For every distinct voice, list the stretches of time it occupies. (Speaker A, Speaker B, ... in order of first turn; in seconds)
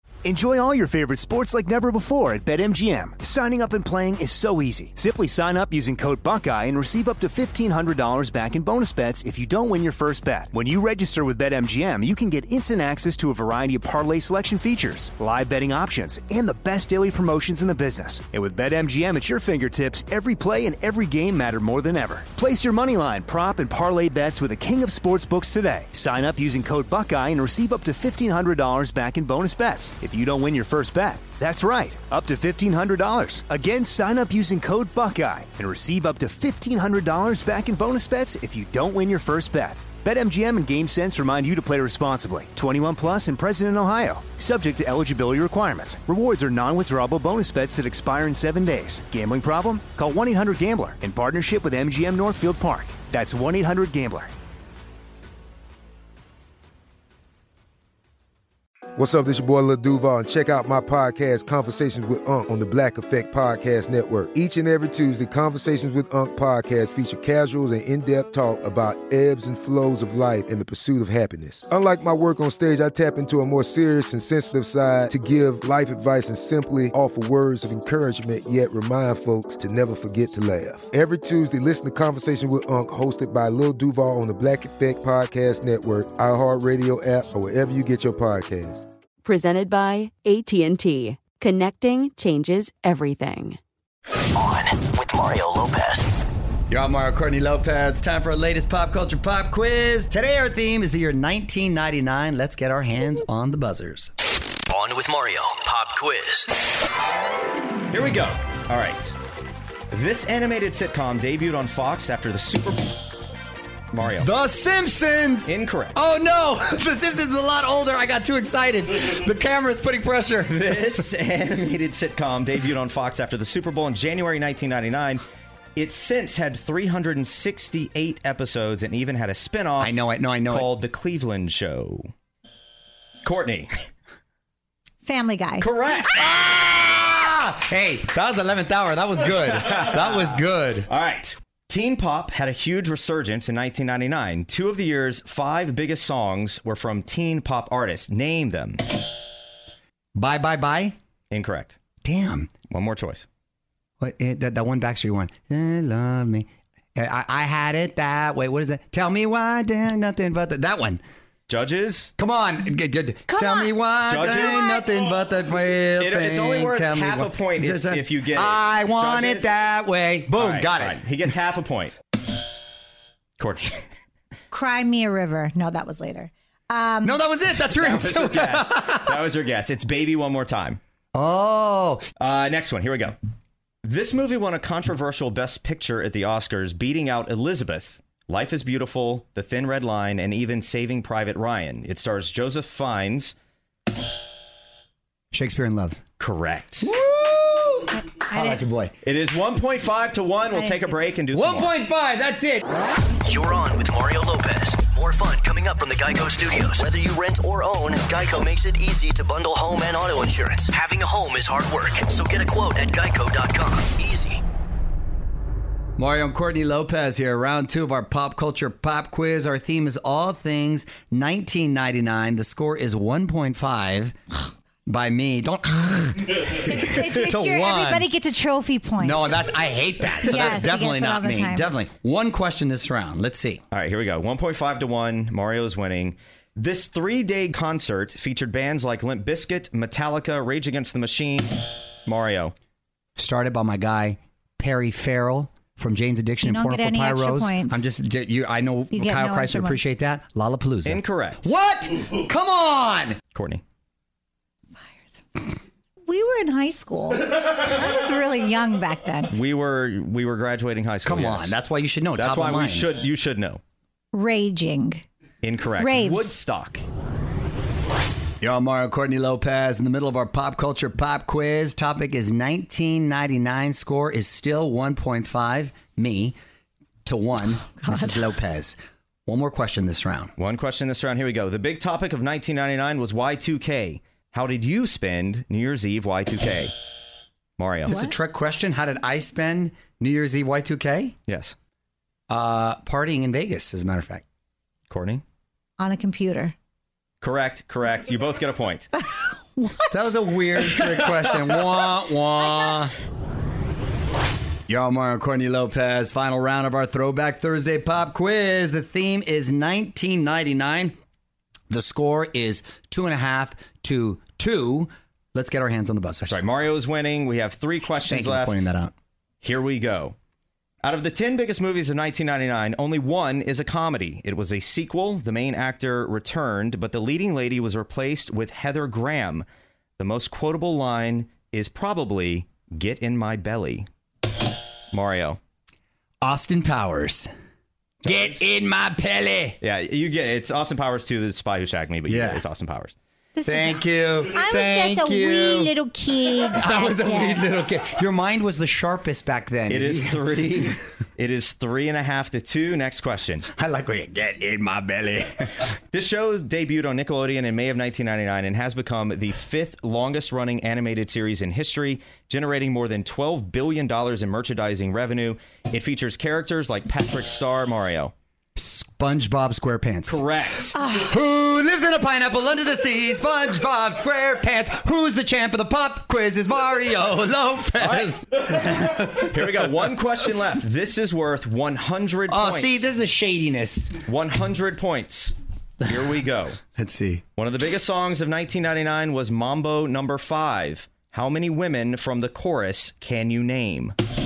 Speaker A: 0.2-54.3
Speaker B: 59.0-88.8
Speaker C: 89.2-93.6
Speaker D: 94.3-96.1, 104.7-106.5, 203.2-214.4
Speaker E: 96.7-104.1, 114.1-121.0, 129.8-130.7, 136.1-140.9, 150.1-150.9, 152.0-152.5, 154.0-161.0, 162.2-171.0, 177.0-179.2, 181.1-182.0, 195.3-196.0, 196.8-198.9, 201.3-202.6, 216.0-224.1, 224.8-228.1, 229.0-233.6, 243.2-253.2, 261.0-262.9, 268.4-276.4, 277.0-280.3, 287.9-291.1, 292.3-294.2, 299.9-302.9, 304.7-310.9, 311.7-316.4, 318.0-318.9, 336.2-337.3, 338.0-339.6, 342.0-342.4, 343.5-345.7, 346.2-350.7, 353.5-355.6, 368.6-370.2, 371.0-379.9, 382.3-384.0, 385.8-386.1, 386.7-387.2
Speaker F: 107.9-109.2, 109.9-112.9, 113.9-114.3, 115.5-116.0, 120.6-125.2, 125.8-132.1, 133.2-133.7, 135.6-136.3, 139.6-148.8, 151.3-151.8, 152.7-153.2, 161.5-162.1, 164.1-164.8, 166.0-169.5, 170.3-171.9, 173.4-173.8, 177.7-180.8, 182.2-183.2, 183.8-193.3, 196.2-196.9, 199.0-201.7, 233.7-241.5, 242.0-242.5, 250.8-251.5, 253.3-253.6, 259.3-261.6, 262.1-263.6, 265.4-266.8, 280.4-286.7, 287.6-288.0, 291.3-291.6, 294.9-295.2, 297.2-298.9, 316.2-318.7, 319.4-320.1, 320.8-329.4, 330.0-333.9, 334.9-335.4, 339.6-342.9, 349.7-353.5, 355.9-368.1, 370.1-370.8, 377.8-382.9, 384.1-386.6, 387.4-393.9
Speaker G: 135.0-135.7, 163.3-163.7, 174.5-177.1, 198.3-198.6, 200.5-200.9, 226.9-229.3, 230.2-231.7, 246.4-247.8, 248.9-249.8, 254.8-255.4, 256.1-259.3, 264.1-265.0, 265.7-266.3, 277.8-278.2, 295.8-296.5, 343.4-347.4, 370.8-371.1